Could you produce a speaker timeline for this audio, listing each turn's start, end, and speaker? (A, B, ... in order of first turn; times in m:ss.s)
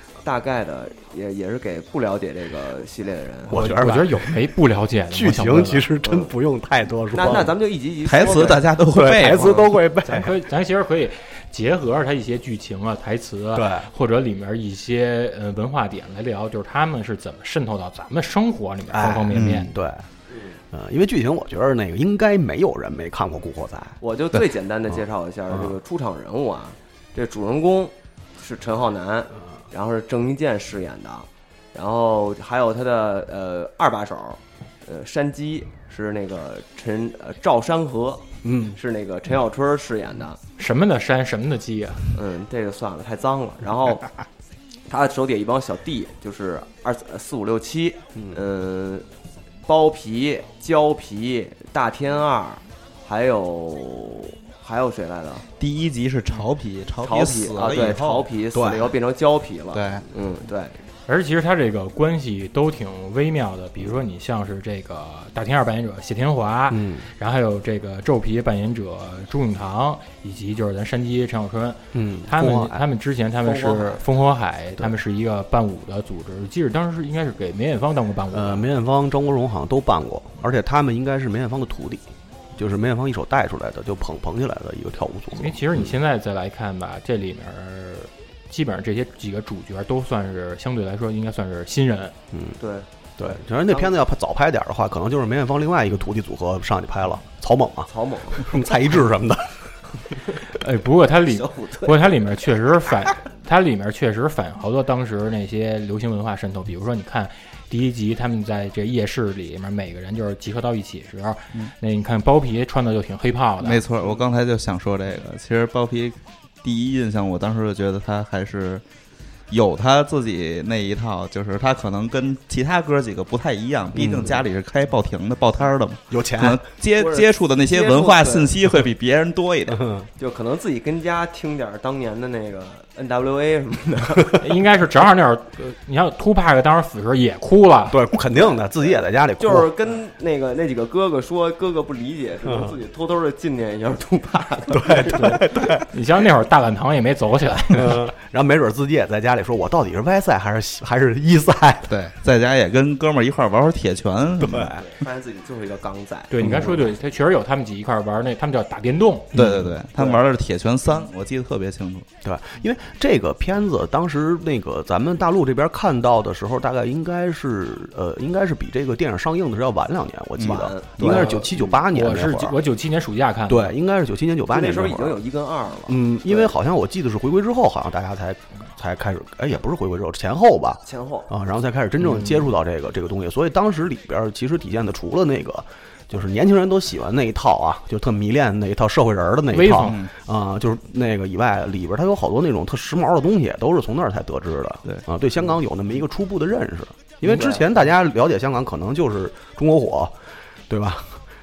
0:00.2-0:03.6 A
0:03.5-0:04.3 B
0:03.5-0:03.8 C
0:03.6-0:05.9 D
0:05.1-0:07.5 B
0:06.0-0:06.3 A
0:07.1-0:08.7 A
0:08.0-0:09.7 C
0:08.9-0:10.4 B
0:09.2-0:09.7 A
0:10.0-0:19.7 D
0:13.5-0:13.9 B
0:18.9-0:20.1 B
0:19.3-0:19.7 C
0:20.3-0:20.6 A
0:20.7-0:24.0 B
0:24.0-0:40.4 A
0:38.4-0:38.8 B
0:40.6-0:42.1 D
0:42.1-0:44.0 A
0:44.9-0:49.0 A
0:49.7-0:55.5 A
0:55.6-0:58.3 C
0:57.0-1:00.8 A
0:58.5-0:59.0 B
0:59.7-1:00.1 C
1:01.1-1:18.7 D
1:06.7-1:07.1 B
1:11.9-1:12.8 B
1:13.4-1:14.0 A
1:18.3-1:25.9 B
1:25.4-1:32.2 D
1:32.3-1:32.6 B
1:32.6-1:33.9 A
1:33.2-1:39.7 B
1:37.9-1:38.5 A
1:40.5-1:53.8 D
1:41.3-1:42.2 A
1:53.6-1:58.8 C
1:59.5-2:09.8 C
2:04.0-2:04.4 B
2:06.1-2:06.6 B
2:07.0-2:08.5 A
2:09.7-2:10.1 B
2:10.2-2:14.4 A
2:14.4-2:18.0 D
2:17.9-2:19.7 B
2:18.3-2:25.4 A
2:22.5-2:22.8 B
2:24.7-2:25.8 B
2:25.0-2:28.0 D
2:27.7-2:31.9 B
2:31.9-2:34.8 C
2:34.4-2:34.8 B
2:34.8-2:36.8 A
2:36.3-2:39.3 D
2:36.4-2:36.8 B
2:39.3-2:39.7 B
2:39.3-2:42.1 C
2:40.0-2:40.2 A
2:42.2-2:52.6 B
2:50.4-2:51.3 C
2:50.4-2:51.7 A
2:51.0-2:53.7 D
2:53.5-2:55.2 B
2:54.5-2:56.5 A
2:55.9-3:20.2 B
3:00.8-3:01.3 A
3:09.5-3:10.0 D
3:09.8-3:10.1 C
3:17.2-3:17.7 A
3:20.7-3:21.2 B